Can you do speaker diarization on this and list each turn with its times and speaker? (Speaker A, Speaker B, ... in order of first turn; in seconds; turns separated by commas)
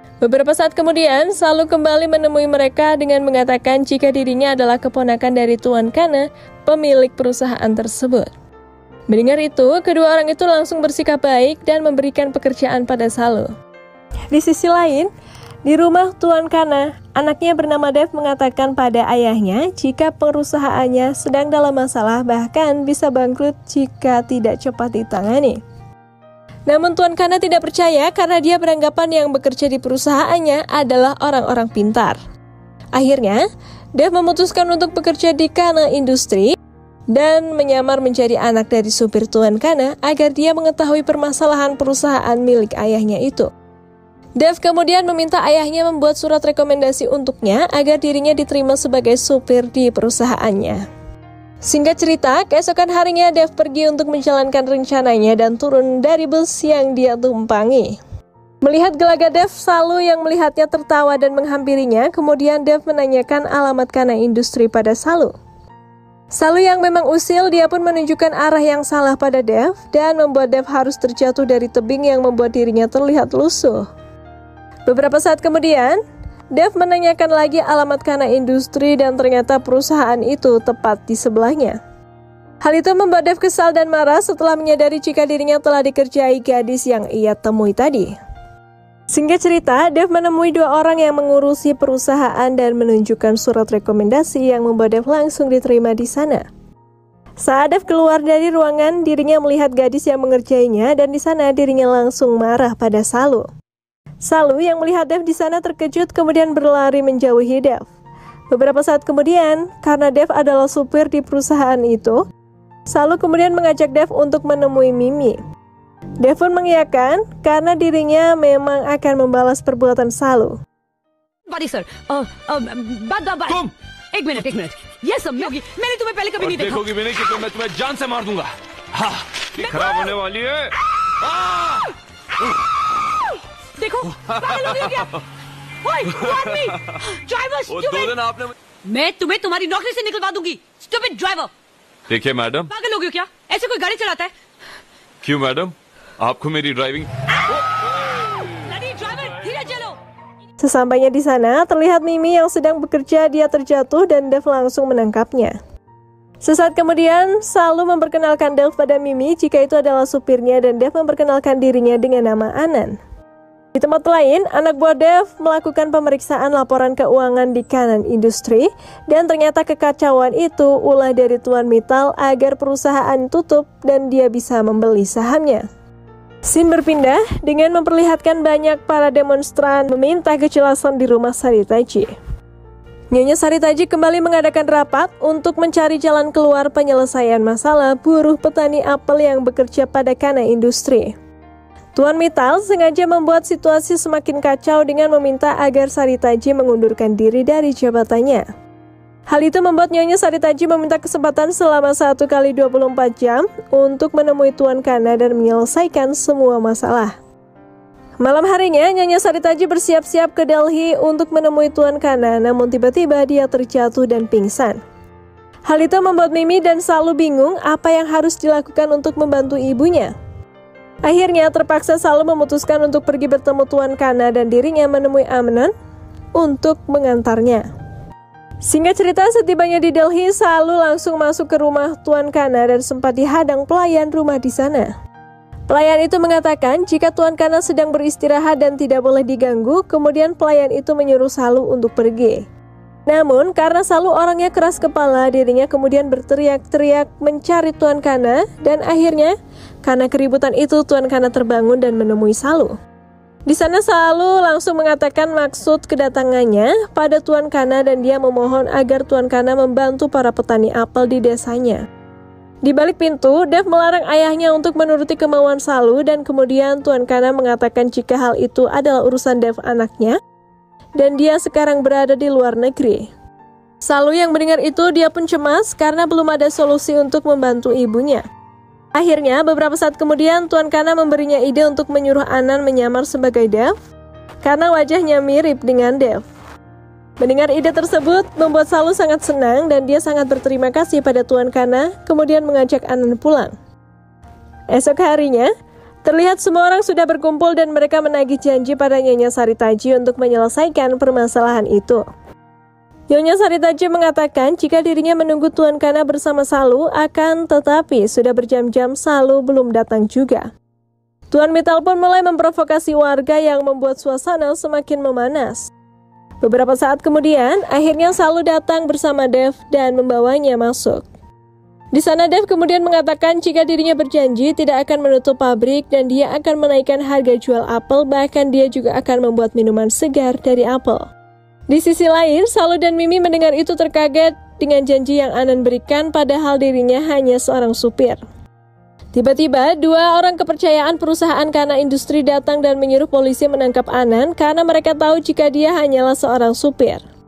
Speaker A: 0.2-8.3, Speaker A: 9.1-13.5, Speaker A: 14.3-15.1, Speaker A: 15.7-25.6, Speaker A: 26.7-32.2, Speaker A: 33.0-36.5, Speaker A: 37.1-43.5, Speaker A: 44.4-50.9, Speaker A: 51.6-58.0, Speaker A: 58.6-65.3, Speaker A: 66.3-73.9, Speaker A: 74.9-76.0, Speaker A: 76.5-81.8, Speaker A: 82.6-88.2, Speaker A: 89.1-96.5, Speaker A: 97.4-103.5, Speaker A: 104.2-107.9, Speaker A: 108.5-112.2, Speaker A: 112.9-115.4, Speaker A: 116.2-120.6, Speaker B: 121.5-126.9, Speaker C: 126.4-131.8, Speaker B: 129.6-130.1, Speaker B: 133.8-135.2, Speaker C: 134.2-135.2, Speaker B: 135.8-138.2, Speaker C: 136.1-137.0, Speaker C: 137.7-138.5, Speaker B: 138.8-141.5, Speaker C: 142.1-142.7, Speaker B: 142.7-144.3, Speaker C: 145.2-148.5, Speaker B: 148.4-150.0, Speaker A: 150.6-155.6, Speaker A: 156.4-163.0, Speaker A: 163.8-175.7, Speaker A: 176.4-182.1, Speaker A: 183.1-191.1, Speaker A: 192.0-198.5, Speaker A: 199.3-207.2, Speaker A: 208.2-214.8, Speaker A: 215.7-220.1, Speaker A: 221.0-225.7, Speaker A: 226.4-227.7, Speaker A: 228.6-234.9, Speaker A: 235.7-242.4, Speaker A: 243.1-252.8, Speaker A: 253.5-261.8, Speaker A: 262.6-270.2, Speaker A: 271.0-273.1, Speaker A: 273.8-278.2, Speaker A: 278.9-283.7, Speaker A: 284.4-286.2, Speaker A: 287.2-293.5, Speaker A: 294.7-295.5, Speaker A: 296.0-302.0, Speaker A: 303.1-310.5, Speaker A: 311.3-315.7, Speaker A: 316.4-321.1, Speaker A: 321.9-331.1, Speaker A: 331.7-338.2, Speaker A: 339.1-347.0